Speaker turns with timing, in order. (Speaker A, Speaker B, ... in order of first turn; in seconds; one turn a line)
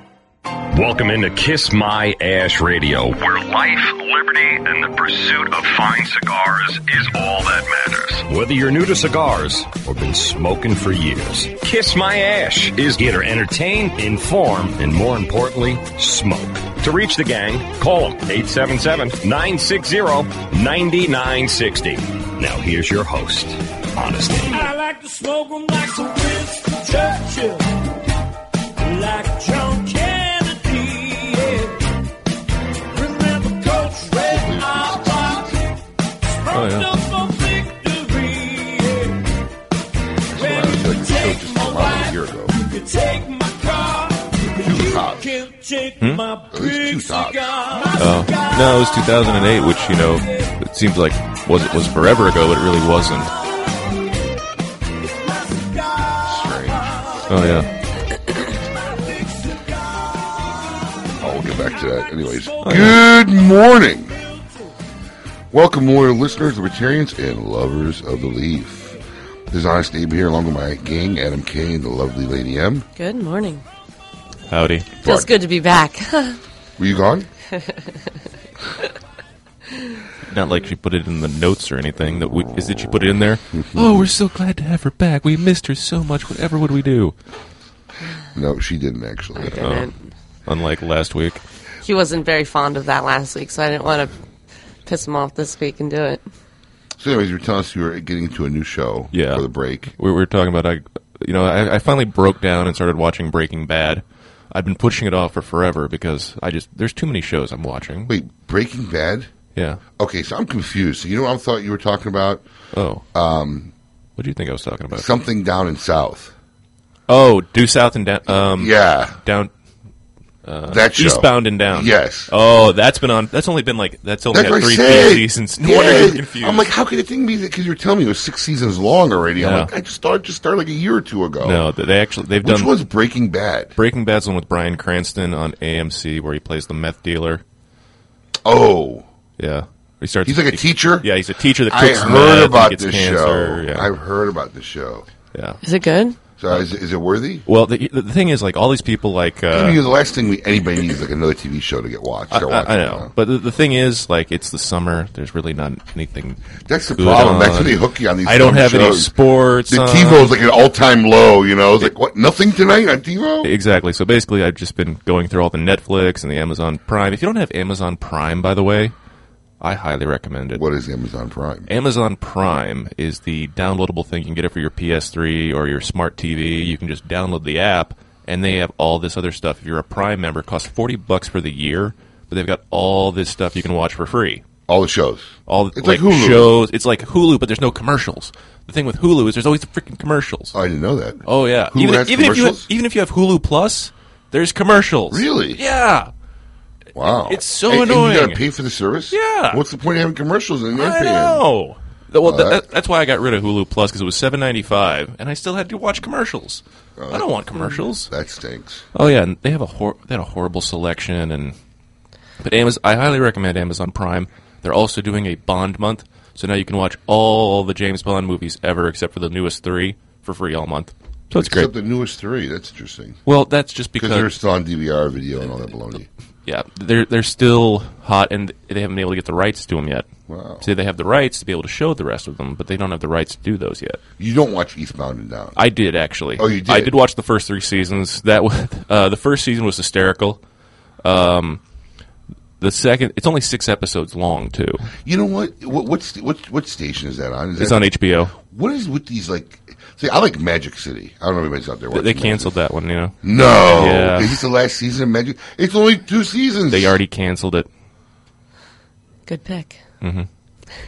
Speaker A: 0.7-24.7
Speaker B: 24.4-27.7
Speaker B: 28.8-31.8
Speaker B: 32.9-35.7
Speaker C: 34.3-35.5
Speaker B: 36.2-39.2
Speaker D: 36.5-36.9
Speaker C: 40.3-42.5
Speaker B: 40.4-48.9
Speaker C: 44.5-45.4
Speaker C: 46.5-47.5
Speaker D: 48.0-53.3
Speaker B: 50.2-50.5
Speaker B: 55.1-57.2
Speaker C: 56.2-57.0
Speaker D: 57.3-57.7
Speaker B: 58.7-60.6
Speaker C: 61.2-64.1
Speaker B: 61.4-62.9
Speaker D: 62.6-63.0
Speaker B: 64.2-64.5
Speaker C: 65.5-69.0
Speaker C: 69.5-72.8
Speaker E: 73.0-73.6
Speaker D: 74.5-75.1
Speaker E: 75.0-76.4
Speaker C: 76.8-77.3
Speaker D: 80.3-87.1
Speaker C: 82.2-83.0
Speaker C: 83.5-84.0
Speaker C: 88.3-89.6
Speaker E: 89.4-90.0
Speaker D: 89.5-89.9
Speaker D: 90.5-91.4
Speaker E: 91.8-94.1
Speaker E: 94.8-96.2
Speaker C: 97.0-99.9
Speaker D: 99.1-108.1
Speaker C: 108.1-109.3
Speaker D: 109.5-109.8
Speaker C: 110.0-112.4
Speaker D: 112.7-113.0
Speaker C: 113.1-113.7
Speaker D: 114.2-115.1
Speaker C: 114.9-116.3
Speaker D: 117.1-119.5
Speaker C: 118.3-119.2
Speaker D: 120.4-126.7
Speaker C: 120.7-122.3
Speaker C: 124.3-131.6
Speaker D: 129.4-129.7
Speaker D: 131.4-132.7
Speaker C: 132.4-133.7
Speaker D: 133.8-137.4
Speaker C: 138.4-139.1
Speaker D: 139.4-143.9
Speaker C: 140.2-141.1
Speaker C: 141.7-145.1
Speaker D: 145.3-145.6
Speaker E: 145.6-146.2
Speaker C: 146.4-147.4
Speaker D: 147.4-149.8
Speaker C: 149.5-153.1
Speaker D: 152.3-156.4
Speaker C: 156.7-159.1
Speaker D: 156.9-160.3
Speaker C: 159.7-163.5
Speaker D: 163.4-168.9
Speaker D: 169.6-170.6
Speaker C: 170.5-171.7
Speaker D: 171.7-184.4
Speaker C: 184.7-186.5
Speaker D: 185.5-190.5
Speaker C: 190.5-192.7
Speaker D: 191.2-196.1
Speaker C: 195.1-195.6
Speaker C: 196.9-201.4
Speaker D: 197.3-198.4
Speaker D: 199.1-199.6
Speaker D: 200.7-208.1
Speaker C: 202.2-202.6
Speaker C: 207.0-208.8
Speaker D: 208.9-211.5
Speaker D: 212.4-221.7
Speaker C: 221.3-223.2
Speaker D: 223.2-224.3
Speaker C: 224.0-226.1
Speaker D: 226.4-230.1
Speaker C: 230.3-230.7
Speaker D: 230.6-234.0
Speaker C: 234.2-235.6
Speaker D: 235.6-240.4
Speaker C: 236.4-236.9
Speaker D: 241.0-241.6
Speaker D: 242.6-244.9
Speaker C: 245.0-252.5
Speaker D: 247.6-248.3
Speaker D: 251.9-253.2
Speaker C: 253.2-257.0
Speaker D: 253.7-254.4
Speaker D: 256.7-257.7
Speaker E: 259.3-259.8
Speaker D: 260.0-260.3